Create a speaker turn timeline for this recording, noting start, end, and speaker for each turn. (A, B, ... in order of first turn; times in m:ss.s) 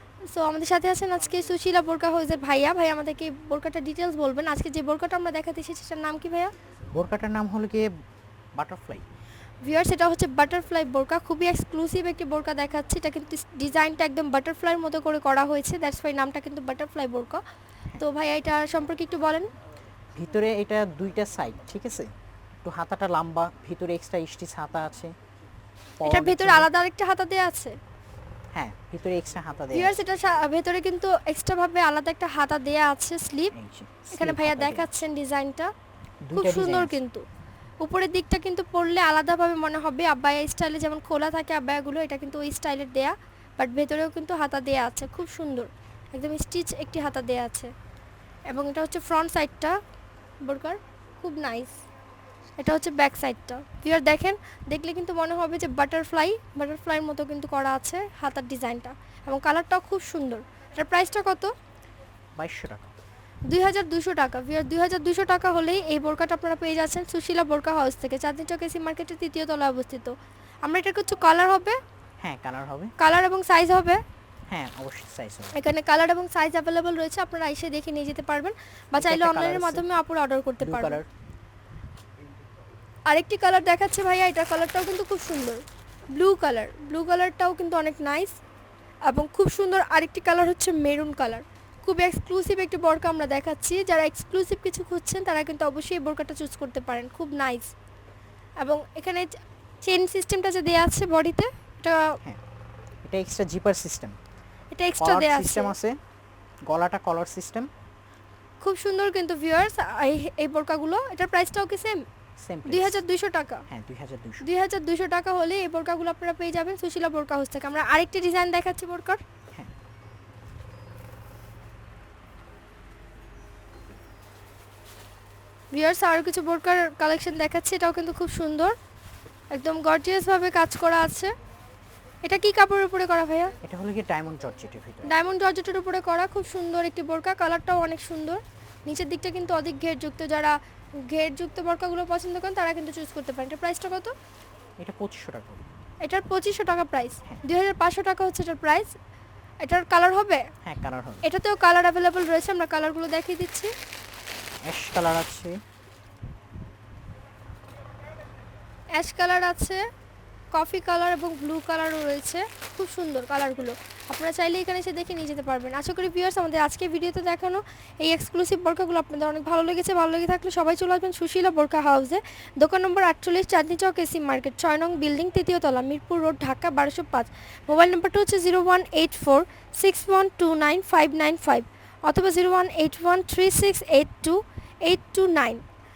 0:00.3-0:06.5 A
0:06.9-0:07.9 B
0:08.6-0:09.0 B
0:09.6-0:17.4 A
0:18.0-0:19.5 A
0:20.2-0:22.1 B
0:22.6-0:25.1 B
0:26.0-0:26.7 B
0:26.0-0:27.7 A
0:28.5-0:29.9 B
0:29.7-0:33.5 A
0:33.5-0:35.0 B
0:34.1-0:35.7 A
0:36.2-0:37.0 B
0:36.3-0:37.2 A
0:37.8-0:47.7 A
0:48.5-0:49.8 A
0:50.4-0:51.8 A
0:52.6-1:01.5 A
1:02.4-1:02.9 B
1:03.5-1:11.8 A
1:12.2-1:12.9 B
1:13.0-1:14.0 A
1:14.5-1:15.5 B
1:15.5-1:21.0 A
1:19.0-1:19.8 B
1:20.6-1:21.1 B
1:23.1-1:25.6 A
1:26.1-1:28.4 A
1:29.1-1:37.7 A
1:38.6-1:42.2 A
1:43.0-1:44.2 B
1:44.7-1:45.7 A
1:45.0-1:46.0 B
1:46.7-1:47.7 B
1:48.6-1:52.0 A
1:52.4-1:53.0 B
1:52.6-1:53.6 A
1:53.7-1:54.4 B
1:54.4-1:59.2 A
2:05.7-2:08.8 A
2:09.5-2:11.3 A
2:12.2-2:13.5 A
2:13.6-2:15.1 B
2:15.0-2:24.1 A
2:24.8-2:25.6 B
2:26.0-2:28.9 A
2:29.6-2:30.4 A
2:30.6-2:31.2 B
2:31.2-2:33.7 A
2:34.6-2:35.6 B
2:39.0-2:39.8 A
2:40.5-3:05.6 A